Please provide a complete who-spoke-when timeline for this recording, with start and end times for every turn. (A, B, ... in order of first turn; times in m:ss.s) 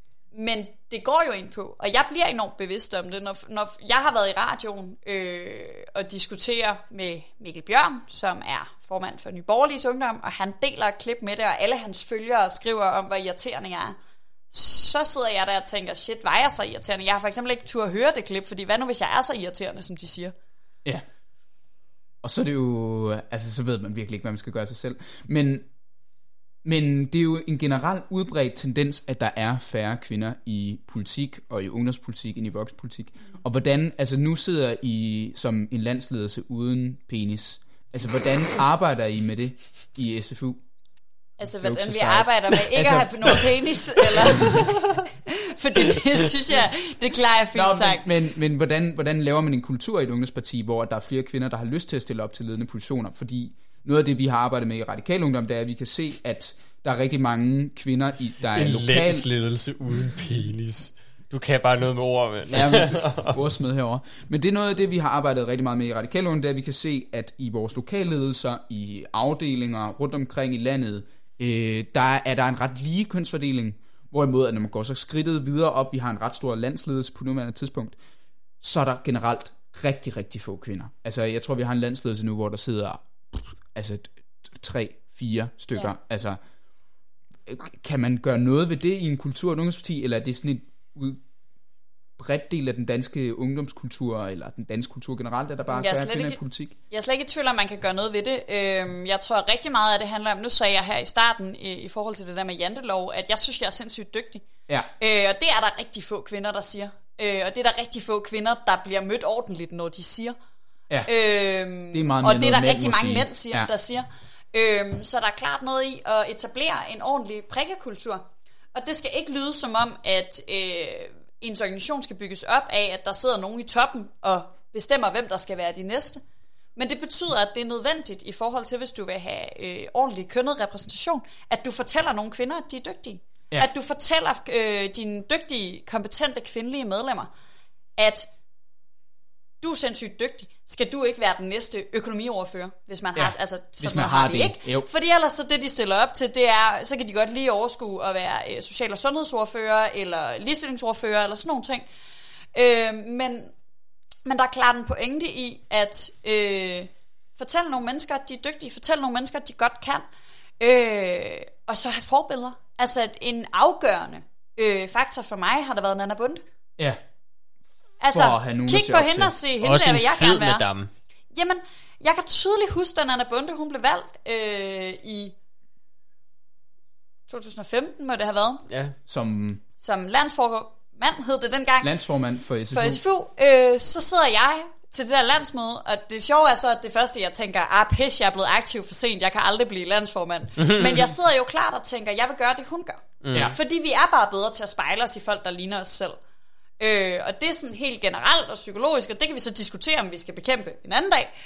0:00.3-0:14.0 A
0:14.5-0:20.3 A
0:22.2-0:25.7 B
0:26.6-0:40.6 B
0:41.4-0:48.0 A
0:41.4-0:43.5 B
0:47.5-0:59.3 B
0:58.5-1:03.4 C
1:02.5-1:18.0 B
1:18.6-1:26.4 B
1:27.4-1:31.2 B
1:32.2-1:36.7 B
1:35.7-1:36.4 A
1:36.9-1:44.4 A
1:45.0-1:50.4 A
1:51.0-2:06.2 A
1:51.9-1:53.7 B
2:06.8-2:17.3 A
2:18.0-2:18.3 A
2:19.6-2:31.8 A
2:23.2-2:24.9 B
2:32.5-2:33.5 A
2:34.2-2:40.0 A
2:40.6-2:46.4 A
2:48.0-2:50.7 A
2:48.1-2:49.3 B
2:49.6-2:50.9 C
2:51.3-2:55.3 A
2:57.3-2:58.6 A
2:58.7-2:58.9 C
2:59.1-2:59.6 B
2:59.8-3:01.9 A
3:01.8-3:03.0 B
3:02.7-3:16.2 A
3:10.6-3:11.1 C
3:13.2-3:13.5 C
3:16.8-3:21.3 A